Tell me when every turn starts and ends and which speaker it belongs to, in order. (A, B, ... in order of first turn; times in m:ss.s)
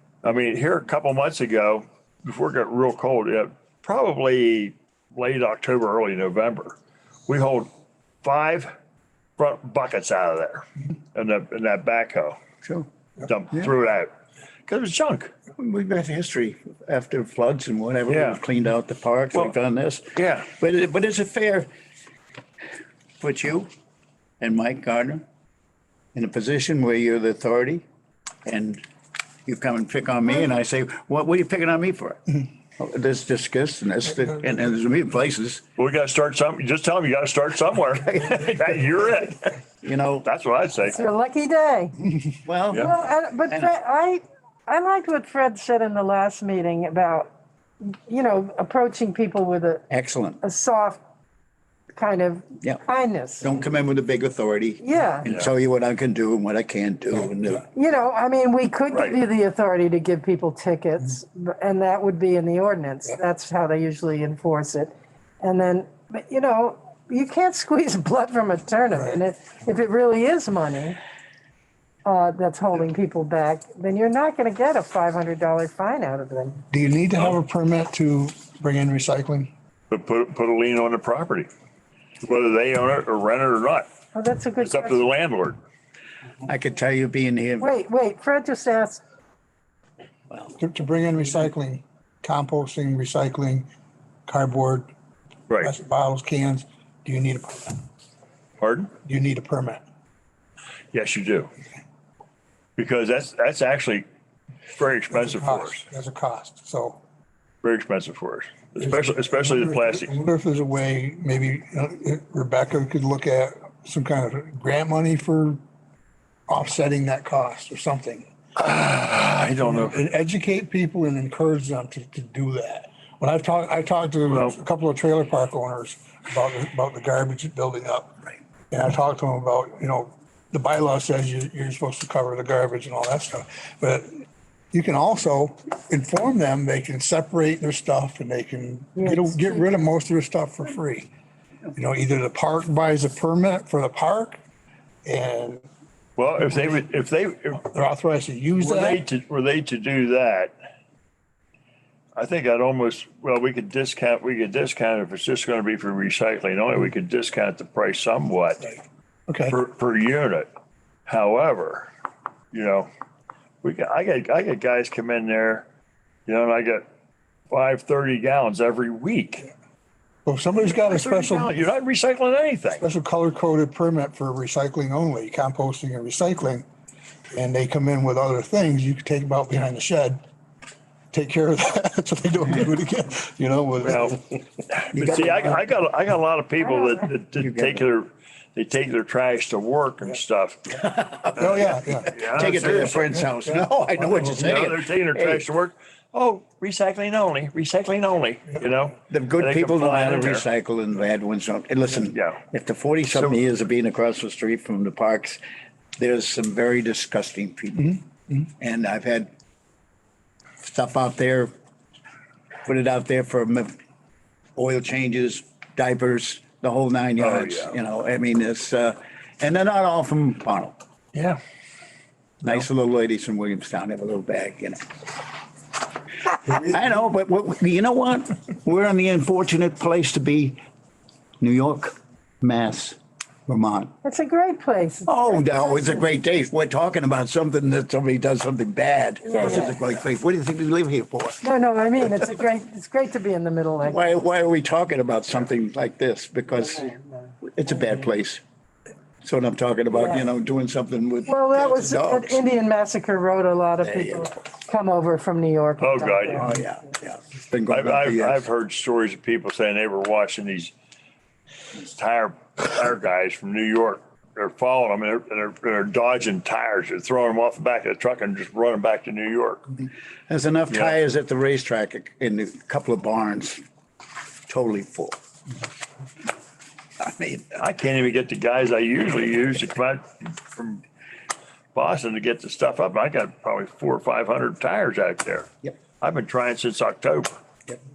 0:00.2-0:06.8 A
0:07.3-0:07.7 A
0:08.2-0:08.7 A
0:09.4-0:12.4 A
0:13.2-0:14.1 A
0:14.7-0:15.3 A
0:15.6-0:21.7 B
0:18.1-0:18.4 A
0:20.2-0:20.5 A
0:23.2-0:23.7 B
0:24.4-0:25.2 B
0:26.1-0:27.8 B
0:28.4-0:28.8 B
0:29.4-0:35.6 B
0:35.8-0:39.6 A
0:39.8-0:40.3 B
0:40.2-0:41.0 A
0:40.8-0:42.0 C
0:42.4-0:43.7 B
0:42.8-0:47.3 C
0:47.8-0:49.8 C
0:49.9-0:50.4 B
0:50.4-0:51.0 C
0:51.9-0:53.5 C
0:53.4-0:57.7 B
0:54.8-0:55.3 C
0:57.7-1:11.0 C
0:58.9-0:59.2 A
1:08.9-1:09.2 D
1:12.0-1:16.6 C
1:16.7-1:19.5 D
1:19.9-1:21.5 A
1:22.2-1:23.9 A
1:24.1-1:25.0 C
1:24.6-1:25.6 A
1:26.4-1:27.7 B
1:27.6-1:29.0 C
1:30.6-1:33.7 D
1:34.3-1:34.9 D
1:35.6-1:37.8 D
1:38.6-1:38.9 A
1:39.0-1:39.8 D
1:40.9-1:41.5 A
1:42.8-1:44.0 A
1:44.7-1:45.9 A
1:45.2-1:47.0 D
1:47.6-1:50.1 A
1:48.8-1:55.6 D
1:56.5-1:58.3 D
1:58.6-2:00.0 A
1:59.6-2:21.1 D
2:04.3-2:04.6 A
2:18.9-2:19.8 C
2:21.7-2:24.4 D
2:25.0-2:25.6 D
2:26.2-2:27.7 A
2:27.6-2:29.0 D
2:28.6-2:30.5 A
2:32.2-2:38.8 A
2:39.3-2:39.6 D
2:39.5-2:40.5 A
2:41.1-2:41.9 A
2:42.5-2:42.9 A
2:43.6-2:45.6 A
2:46.3-2:46.8 A
2:47.5-2:49.5 A
2:50.2-2:51.5 D
2:50.6-2:52.8 A
2:52.8-2:56.6 D
2:57.3-3:00.2 D
3:01.1-3:04.4 D
3:03.8-3:10.8 A
3:04.9-3:05.6 B
3:07.4-3:07.8 B
3:10.7-3:15.4 B
3:11.4-3:13.1 A
3:11.4-3:12.1 D
3:12.9-3:13.6 D
3:14.1-3:20.4 A
3:19.1-3:25.4 B
3:22.1-3:22.4 A
3:26.0-3:29.3 B
3:30.6-3:31.5 B
3:32.6-3:33.8 B
3:34.6-3:40.8 B
3:37.2-3:37.8 A
3:41.1-3:41.4 A
3:42.4-3:44.8 B
3:46.4-3:50.6 B
3:51.4-3:53.9 B
3:54.0-3:56.1 C
3:55.0-4:01.4 B
3:59.2-3:59.8 C
4:01.4-4:04.2 C
4:02.0-4:02.3 B
4:03.8-4:08.4 B
4:09.2-4:12.4 B
4:09.9-4:10.2 C
4:11.2-4:16.6 C
4:13.8-4:14.4 B
4:15.8-4:16.5 A
4:16.3-4:18.4 B
4:17.7-4:20.7 A
4:21.8-4:29.7 A
4:30.3-4:33.6 B
4:34.5-4:35.2 B
4:37.0-4:37.6 B
4:37.5-4:40.8 A
4:41.7-4:45.5 A
4:46.0-4:47.4 A